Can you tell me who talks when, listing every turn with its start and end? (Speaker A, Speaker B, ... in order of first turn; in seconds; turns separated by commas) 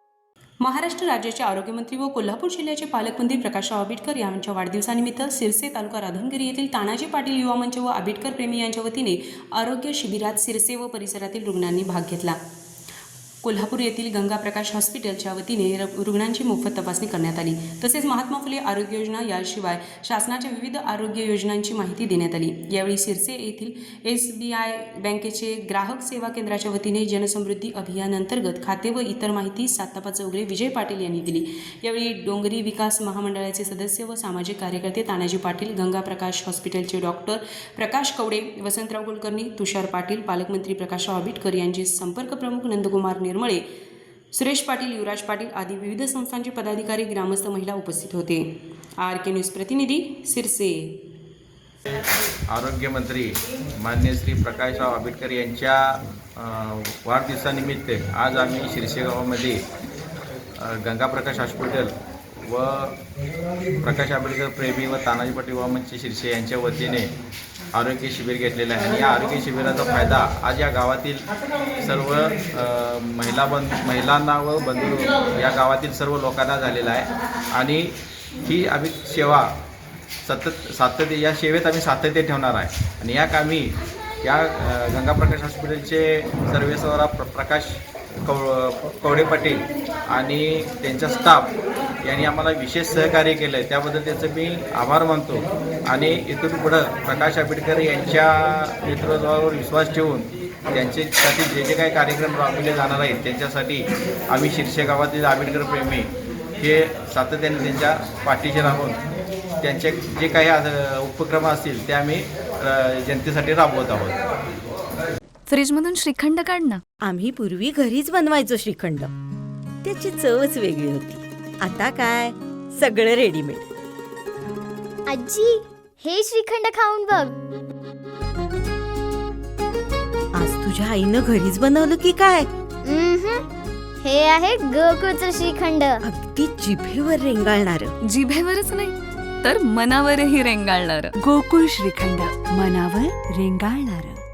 Speaker A: 0.6-12.4, Speaker A: 13.4-43.6, Speaker A: 44.3-48.5, Speaker A: 49.0-51.0, Speaker B: 52.5-59.6, Speaker B: 60.5-63.0, Speaker B: 63.8-67.1, Speaker B: 67.7-71.2, Speaker B: 71.8-77.9, Speaker B: 78.4-79.5, Speaker B: 80.2-91.5, Speaker B: 92.0-109.0, Speaker B: 109.6-114.2, Speaker C: 115.5-116.8, Speaker D: 117.0-119.1, Speaker D: 119.8-123.7, Speaker E: 125.1-127.3, Speaker D: 130.3-132.5, Speaker E: 132.8-133.4, Speaker E: 134.0-136.0, Speaker D: 136.0-137.9, Speaker C: 138.0-141.1, Speaker F: 141.2-144.2